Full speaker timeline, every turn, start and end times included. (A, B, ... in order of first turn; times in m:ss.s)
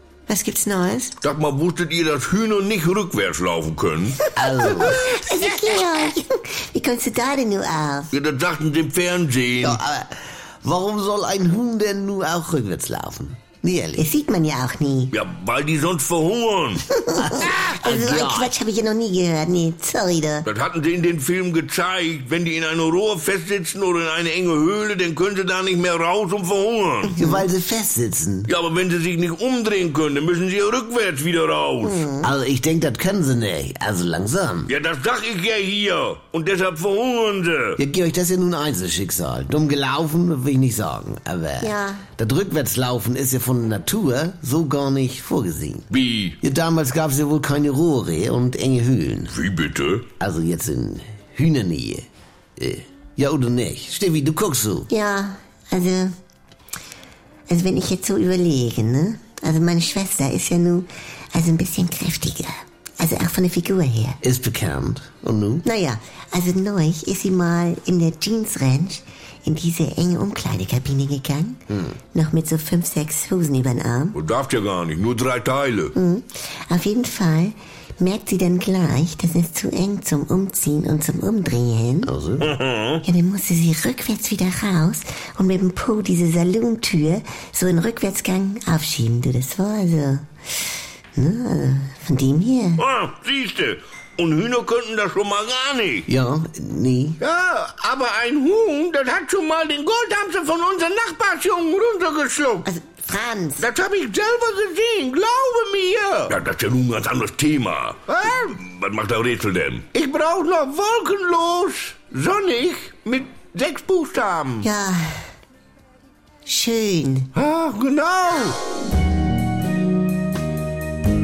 0:00.3-0:01.1 A
0:01.2-0:04.2 B
0:04.4-0:05.1 C
0:04.4-0:08.1 A
0:08.1-0:09.8 B
0:09.6-0:14.0 C
0:14.0-0:15.1 A
0:15.1-0:16.9 B
0:16.9-0:20.5 A
0:17.2-0:18.5 C
0:20.4-0:27.2 B
0:27.0-0:27.5 A
0:27.2-0:28.5 C
0:28.4-0:32.0 B
0:31.8-0:32.3 A
0:32.2-0:34.7 C
0:34.7-0:37.8 B
0:37.8-0:45.9 C
0:41.6-0:42.0 A
0:45.9-0:46.4 B
0:46.4-0:49.3 C
0:49.3-0:50.1 B
0:50.2-0:52.0 C
0:52.6-0:54.9 C
0:54.9-0:56.1 A
0:57.5-1:04.2 A
1:04.2-1:05.6 C
1:05.6-1:11.6 A
1:12.1-1:14.2 A
1:14.1-1:15.9 B
1:15.9-1:22.1 A
1:22.0-1:22.5 C
1:22.4-1:23.0 B
1:23.0-1:30.2 A
1:31.1-1:32.8 A
1:32.8-1:36.0 B
1:36.1-1:37.2 C
1:37.2-1:42.7 B
1:42.6-1:43.7 A
1:43.6-1:54.7 B
1:54.6-1:55.1 A
1:56.4-1:57.3 A
1:57.3-1:58.6 B